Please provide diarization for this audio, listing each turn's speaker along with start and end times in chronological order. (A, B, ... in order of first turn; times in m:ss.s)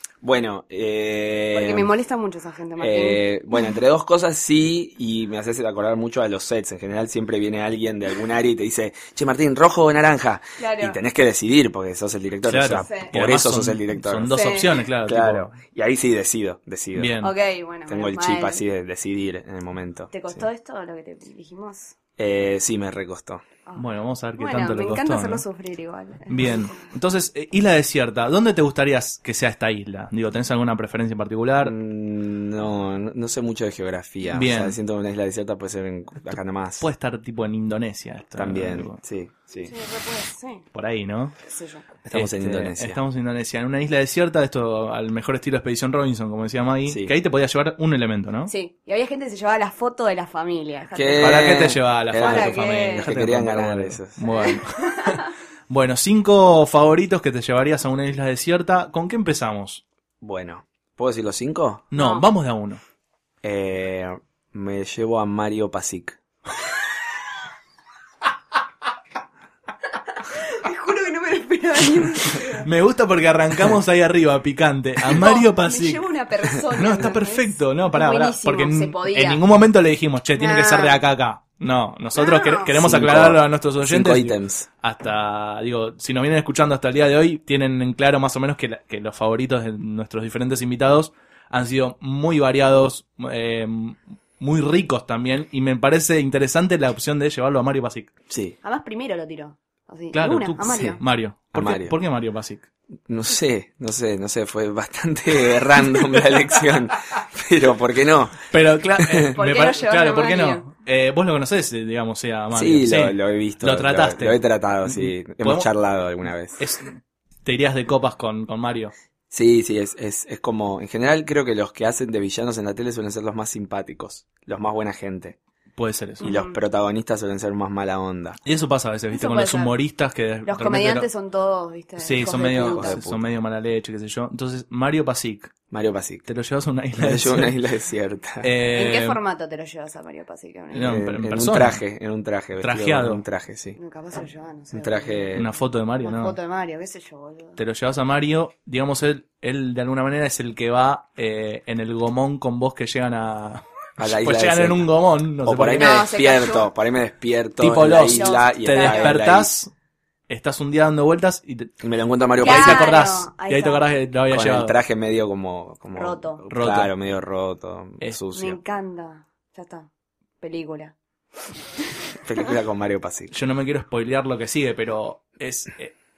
0:00.2-0:01.9 A
0:01.5-0:03.2 B
0:02.8-0:14.4 A
0:10.6-0:11.0 B
0:12.4-0:15.5 C
0:12.8-0:13.1 B
0:14.3-0:14.7 B
0:15.0-0:17.2 A
0:16.9-0:17.3 C
0:17.2-0:18.6 B
0:17.9-0:20.3 A
0:20.1-0:21.9 B
0:22.2-0:23.4 A
0:23.8-0:25.4 C
0:24.4-0:26.8 B
0:26.3-0:31.7 C
0:31.6-0:36.9 A
0:34.3-0:34.8 C
0:36.3-0:39.0 C
0:38.4-0:39.7 A
0:39.6-0:40.6 B
0:40.7-0:41.3 C
0:41.4-0:41.8 B
0:42.0-0:43.0 A
0:42.1-0:48.5 C
0:46.9-0:47.1 A
0:48.5-0:53.1 B
0:50.9-0:54.2 A
0:51.2-0:59.8 C
0:54.2-0:55.3 B
1:00.2-1:01.9 A
1:01.9-1:02.8 C
1:01.9-1:02.3 B
1:03.4-1:06.2 A
1:10.1-1:12.7 B
1:12.5-1:16.1 C
1:15.1-1:19.4 B
1:16.7-1:38.1 C
1:20.4-1:21.0 B
1:22.2-1:22.7 B
1:22.7-1:24.7 A
1:38.3-1:38.6 A
1:38.6-1:41.0 B
1:40.1-1:42.6 C
1:40.6-1:41.0 A
1:41.5-1:41.9 A
1:43.1-1:48.4 A
1:48.5-1:55.7 C
1:49.0-1:49.3 A
1:49.3-1:50.6 B
1:52.5-1:56.6 A
1:56.6-1:58.9 C
1:59.3-2:05.4 A
2:05.8-2:06.2 C
2:06.2-2:06.6 B
2:06.2-2:08.4 A
2:08.4-2:11.1 C
2:09.1-2:09.8 B
2:10.4-2:13.0 B
2:12.0-2:15.5 C
2:12.2-2:13.2 A
2:15.7-2:16.3 A
2:16.3-2:17.6 C
2:17.0-2:18.5 A
2:18.4-2:19.2 C
2:18.7-2:21.0 B
2:20.7-2:21.8 C
2:20.8-2:23.8 A
2:22.6-2:23.2 C
2:23.8-2:25.5 B
2:24.7-2:25.5 A
2:25.4-2:26.4 C
2:26.0-2:27.6 B
2:27.6-2:36.0 C
2:34.0-2:34.9 A
2:35.4-2:39.5 A
2:35.7-2:36.7 B
2:37.6-2:39.7 C
2:37.7-2:39.2 B
2:40.3-2:41.7 C
2:41.8-2:43.0 A
2:42.4-2:44.8 C
2:42.4-2:43.9 B
2:44.3-2:48.6 A
2:46.0-2:46.4 B
2:46.5-2:46.9 C
2:48.3-2:49.9 B
2:50.4-2:50.9 B
2:52.2-2:53.3 A
2:53.3-2:55.9 C